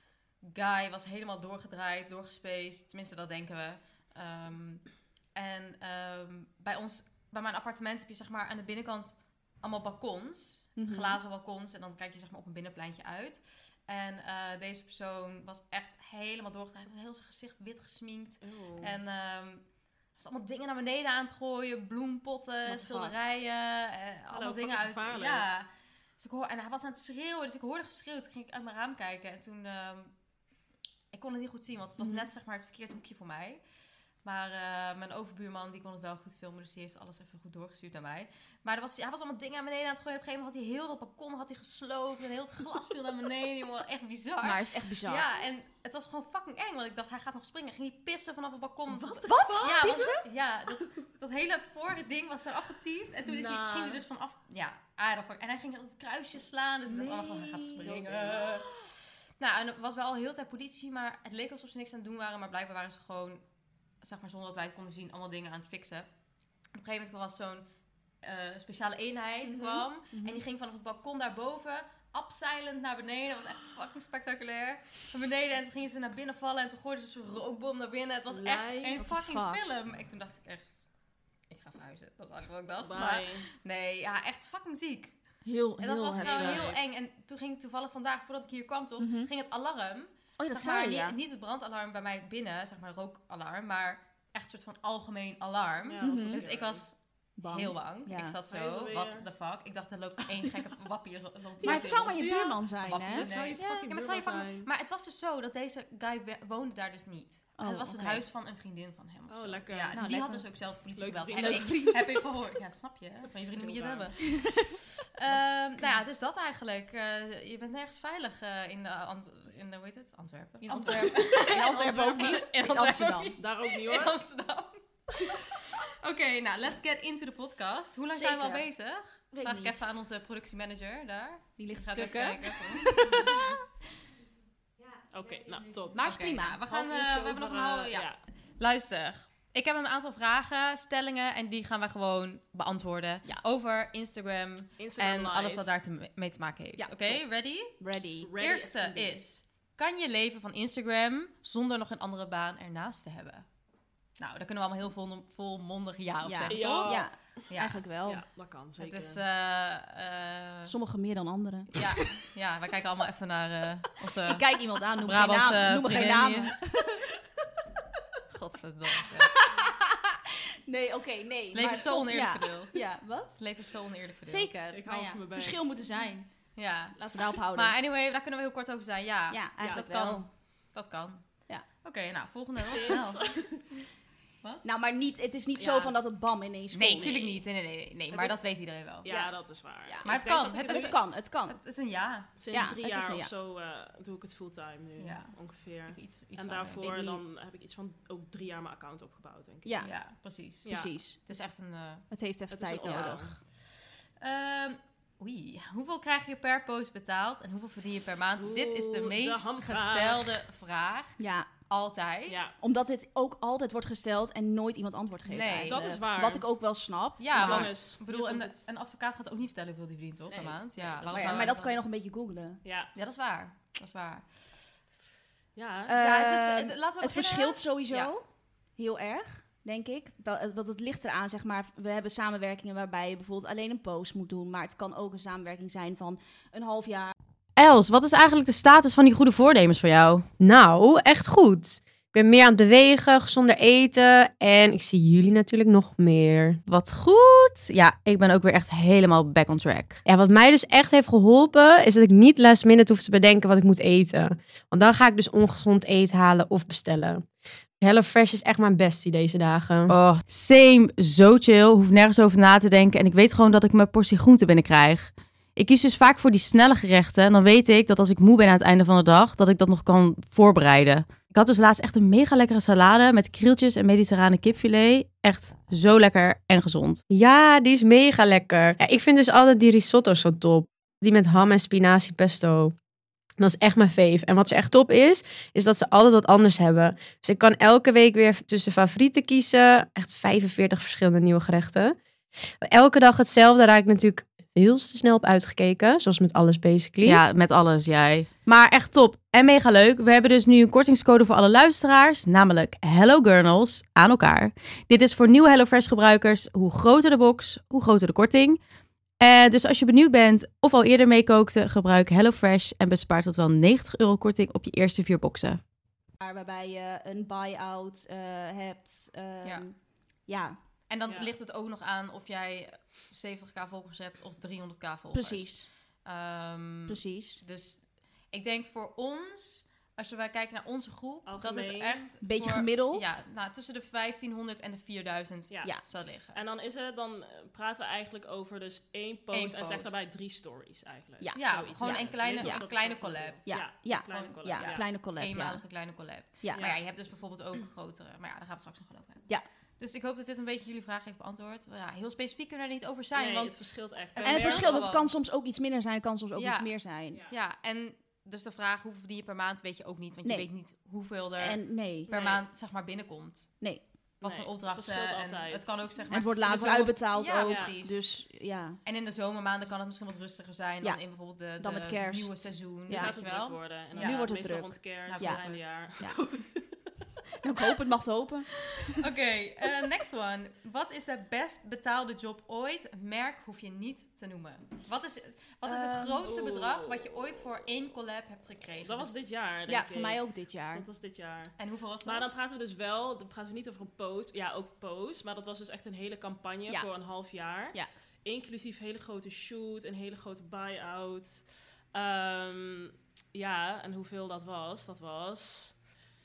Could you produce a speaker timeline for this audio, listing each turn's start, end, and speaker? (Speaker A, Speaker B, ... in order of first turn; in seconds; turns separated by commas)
Speaker A: 0.5-19.6, Speaker B: 10.8-11.2, Speaker C: 18.4-19.0, Speaker A: 20.2-25.7, Speaker B: 22.6-23.2, Speaker C: 24.3-25.5, Speaker A: 26.2-30.1, Speaker A: 31.1-33.6, Speaker B: 32.0-32.3, Speaker A: 34.2-58.8, Speaker B: 44.4-45.3, Speaker C: 48.9-50.2, Speaker B: 49.2-50.2, Speaker C: 53.2-54.0, Speaker B: 56.9-58.4, Speaker C: 57.0-58.6, Speaker A: 59.4-63.4, Speaker A: 64.0-66.1, Speaker A: 66.7-67.7, Speaker A: 68.2-80.9, Speaker B: 69.5-70.4, Speaker C: 78.3-79.0, Speaker B: 79.0-79.6, Speaker A: 81.5-85.2, Speaker C: 82.8-83.5, Speaker B: 85.5-86.7, Speaker A: 85.8-102.3, Speaker C: 86.2-86.8, Speaker B: 89.0-89.3, Speaker B: 90.4-91.2, Speaker C: 95.8-96.9, Speaker B: 96.0-96.4, Speaker B: 97.4-98.4, Speaker C: 98.5-99.3, Speaker C: 101.6-104.7, Speaker B: 101.6-103.7, Speaker A: 102.8-133.2, Speaker B: 107.6-108.2, Speaker C: 109.3-110.1, Speaker B: 109.9-110.5, Speaker C: 111.0-112.1, Speaker B: 111.3-112.3, Speaker C: 113.3-114.1, Speaker B: 114.2-114.7, Speaker B: 120.6-123.3, Speaker C: 123.4-124.2, Speaker B: 128.1-128.7, Speaker B: 129.3-129.8, Speaker B: 131.6-133.6, Speaker C: 135.1-136.2, Speaker B: 135.9-137.4, Speaker A: 135.9-147.8, Speaker C: 137.2-138.2, Speaker C: 144.8-145.7, Speaker B: 146.8-147.2, Speaker B: 147.8-148.4, Speaker C: 148.2-149.1, Speaker A: 148.3-153.4, Speaker A: 154.2-157.8, Speaker B: 156.2-158.2, Speaker C: 156.5-157.1, Speaker C: 158.1-159.2, Speaker A: 158.8-160.7, Speaker B: 160.7-162.2, Speaker A: 161.7-166.5, Speaker B: 164.3-167.0, Speaker A: 168.3-169.4, Speaker B: 169.3-173.3, Speaker A: 171.5-172.8, Speaker A: 173.3-174.6, Speaker B: 174.2-176.3, Speaker C: 174.7-175.6, Speaker A: 176.6-177.0, Speaker C: 177.0-177.3, Speaker B: 177.0-177.8, Speaker A: 177.5-181.2, Speaker B: 179.3-180.3, Speaker A: 181.8-183.4, Speaker C: 182.6-183.7, Speaker B: 184.6-187.2, Speaker C: 185.6-185.9, Speaker A: 186.7-189.1, Speaker C: 187.0-187.3, Speaker C: 189.0-191.0, Speaker B: 189.1-189.3, Speaker B: 189.8-191.6, Speaker A: 190.0-192.3, Speaker C: 192.4-199.8, Speaker B: 192.5-193.3, Speaker A: 195.0-195.3, Speaker A: 195.9-197.1, Speaker B: 196.8-197.2, Speaker B: 199.7-199.9, Speaker A: 199.8-202.1, Speaker C: 200.7-200.9, Speaker B: 200.7-201.2, Speaker B: 202.1-203.4, Speaker C: 202.5-203.4, Speaker A: 204.2-212.5, Speaker C: 208.4-210.4, Speaker B: 211.2-211.5, Speaker C: 212.3-212.6, Speaker B: 212.6-217.7, Speaker A: 215.3-215.8, Speaker C: 215.7-216.4, Speaker A: 217.2-221.8, Speaker C: 217.3-218.6, Speaker B: 220.3-220.6, Speaker C: 220.4-221.6, Speaker B: 221.1-222.6, Speaker C: 222.6-222.9, Speaker A: 222.9-224.3, Speaker C: 225.6-226.0, Speaker B: 225.9-228.2, Speaker A: 226.0-228.1, Speaker B: 228.8-237.1, Speaker A: 237.6-240.3, Speaker D: 240.4-246.6, Speaker A: 246.7-250.0, Speaker D: 250.1-257.3, Speaker D: 257.8-259.9, Speaker A: 259.9-277.0, Speaker D: 277.1-282.8, Speaker D: 283.4-292.0, Speaker D: 292.6-297.2, Speaker A: 297.0-308.6, Speaker A: 309.2-315.6, Speaker B: 316.2-319.8, Speaker B: 320.3-320.6, Speaker A: 320.9-336.4, Speaker C: 321.1-321.3, Speaker B: 325.1-325.7, Speaker B: 326.9-327.4, Speaker C: 331.3-332.1, Speaker B: 332.2-333.2, Speaker C: 335.5-335.8, Speaker C: 336.3-344.9, Speaker A: 339.3-340.0, Speaker B: 341.2-342.6, Speaker A: 341.3-343.5, Speaker B: 343.5-345.6, Speaker A: 344.1-353.6, Speaker C: 346.6-346.8, Speaker C: 353.1-354.9, Speaker A: 354.1-355.1, Speaker B: 354.2-357.2, Speaker A: 356.4-356.7, Speaker A: 357.3-363.5, Speaker B: 361.4-362.1, Speaker C: 362.1-362.4, Speaker A: 364.2-368.1, Speaker C: 364.2-365.8, Speaker B: 366.1-368.8, Speaker C: 367.4-367.7, Speaker A: 368.9-374.3, Speaker B: 371.6-373.2, Speaker C: 372.9-376.2, Speaker B: 373.9-375.4, Speaker A: 375.1-376.5, Speaker B: 377.4-379.0, Speaker A: 379.0-389.1, Speaker B: 385.7-386.1, Speaker C: 386.0-387.6, Speaker C: 388.8-390.2, Speaker B: 389.7-390.9, Speaker C: 390.7-405.8, Speaker A: 391.6-392.4